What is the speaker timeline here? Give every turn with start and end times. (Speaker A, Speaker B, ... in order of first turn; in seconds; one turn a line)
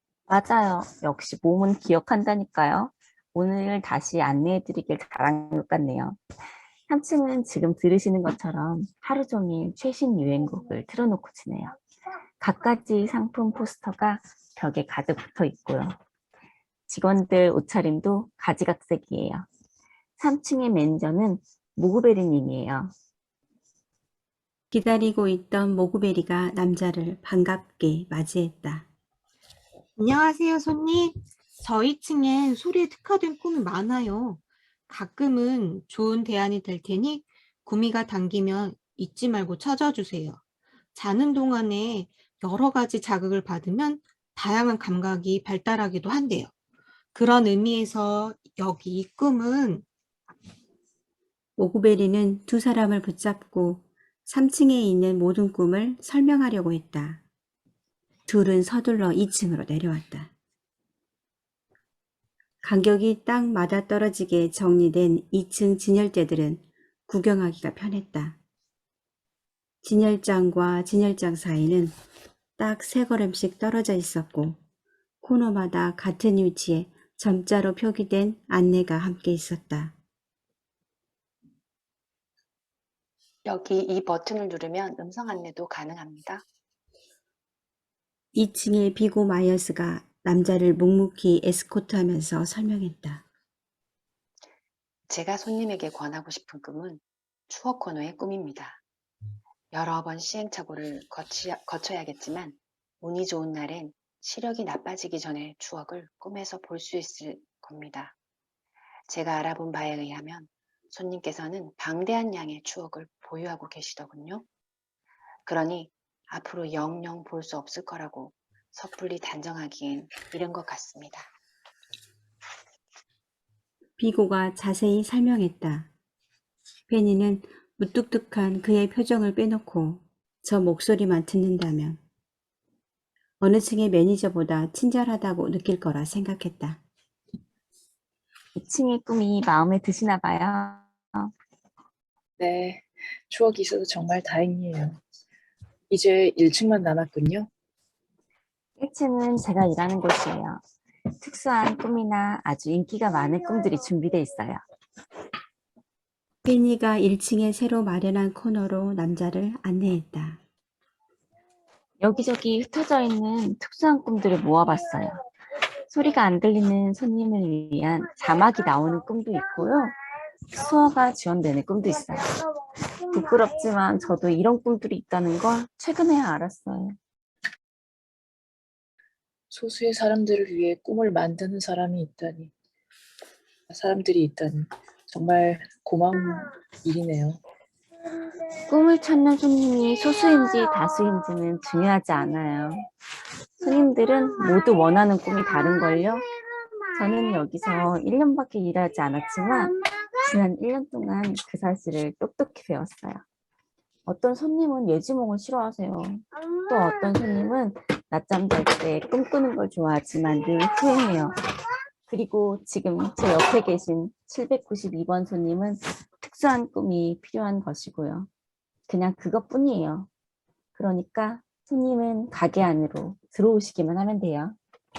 Speaker A: 0.3-6.2
Speaker A: 6.9-11.8
Speaker A: 12.4-16.0
Speaker A: 16.9-19.5
Speaker A: 20.2-22.9
Speaker B: 24.7-28.9
Speaker C: 30.0-40.4
Speaker C: 41.0-46.5
Speaker C: 47.1-49.9
Speaker B: 51.6-57.2
Speaker B: 58.3-60.3
Speaker B: 62.6-68.4
Speaker B: 69.8-72.0
Speaker B: 72.6-74.6
Speaker B: 75.2-80.0
Speaker D: 83.5-86.4
Speaker B: 88.3-93.2
Speaker D: 95.1-98.8
Speaker D: 99.7-108.1
Speaker D: 109.1-114.5
Speaker D: 115.5-121.3
Speaker B: 124.0-125.9
Speaker B: 126.9-132.0
Speaker B: 133.4-136.8
Speaker A: 138.6-141.3
Speaker E: 142.4-145.0
Speaker E: 145.9-147.5
Speaker A: 148.8-150.6
Speaker A: 151.2-154.6
Speaker B: 156.4-160.4
Speaker A: 162.0-165.2
Speaker A: 165.9-170.0
Speaker A: 170.5-172.3
Speaker A: 173.1-177.0
Speaker E: 179.5-182.5
Speaker E: 183.7-187.4
Speaker A: 188.6-192.9
Speaker A: 193.6-196.3
Speaker A: 196.9-203.2
Speaker A: 204.1-211.4
Speaker A: 212.1-218.3
Speaker A: 218.9-220.1
Speaker A: 220.8-224.6